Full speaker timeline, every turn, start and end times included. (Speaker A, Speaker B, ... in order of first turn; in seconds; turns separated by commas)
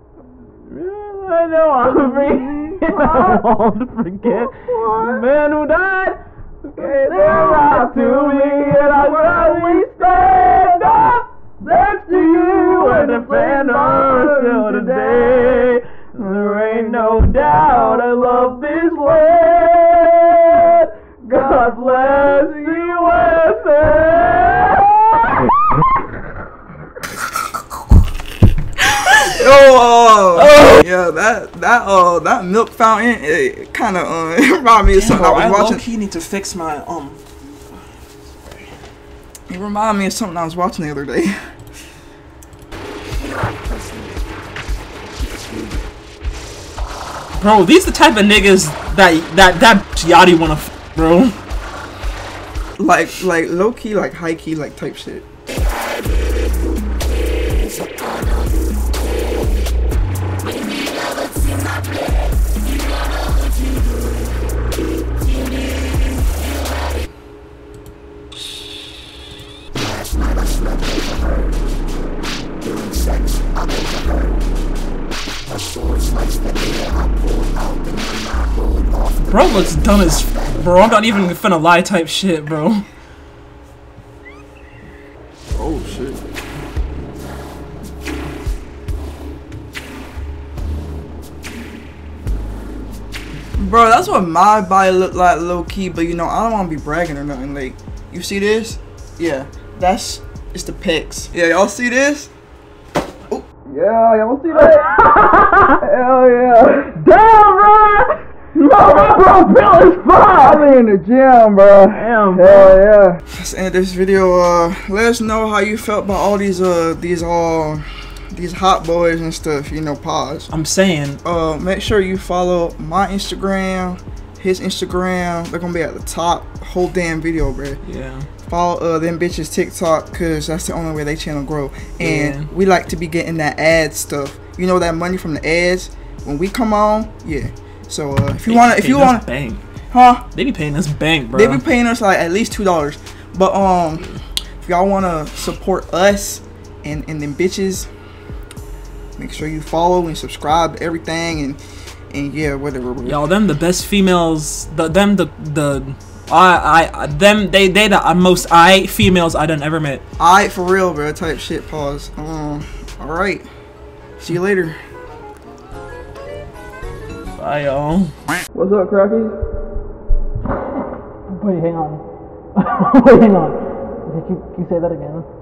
Speaker A: 0.7-25.4, Speaker B: 2.8-3.4, Speaker B: 4.2-5.2, Speaker B: 6.8-9.9, Speaker B: 11.7-15.5, Speaker B: 16.4-16.8, Speaker B: 21.3-22.0, Speaker B: 29.2-35.8, Speaker A: 30.4-30.8, Speaker A: 35.0-37.2, Speaker A: 38.4-38.7, Speaker B: 39.5-41.4, Speaker A: 47.4-51.3, Speaker B: 52.8-55.2, Speaker A: 79.2-82.8, Speaker B: 85.5-86.2, Speaker B: 93.6-102.3, Speaker B: 103.3-105.0, Speaker A: 104.6-105.8, Speaker B: 105.8-106.9, Speaker A: 106.9-110.8, Speaker B: 108.9-109.2, Speaker B: 110.3-120.5, Speaker A: 111.9-112.8, Speaker A: 120.5-121.2, Speaker B: 121.2-127.8, Speaker A: 127.8-128.3, Speaker B: 128.4-139.2, Speaker A: 132.0-132.5, Speaker A: 138.4-139.6, Speaker B: 139.9-140.2, Speaker A: 140.3-141.6, Speaker B: 141.3-147.9, Speaker B: 149.2-151.6, Speaker B: 152.1-153.2, Speaker A: 153.0-160.0, Speaker B: 160.2-163.4, Speaker B: 164.2-164.8, Speaker A: 167.4-168.1, Speaker B: 168.5-169.4, Speaker A: 171.3-172.0, Speaker A: 172.6-175.2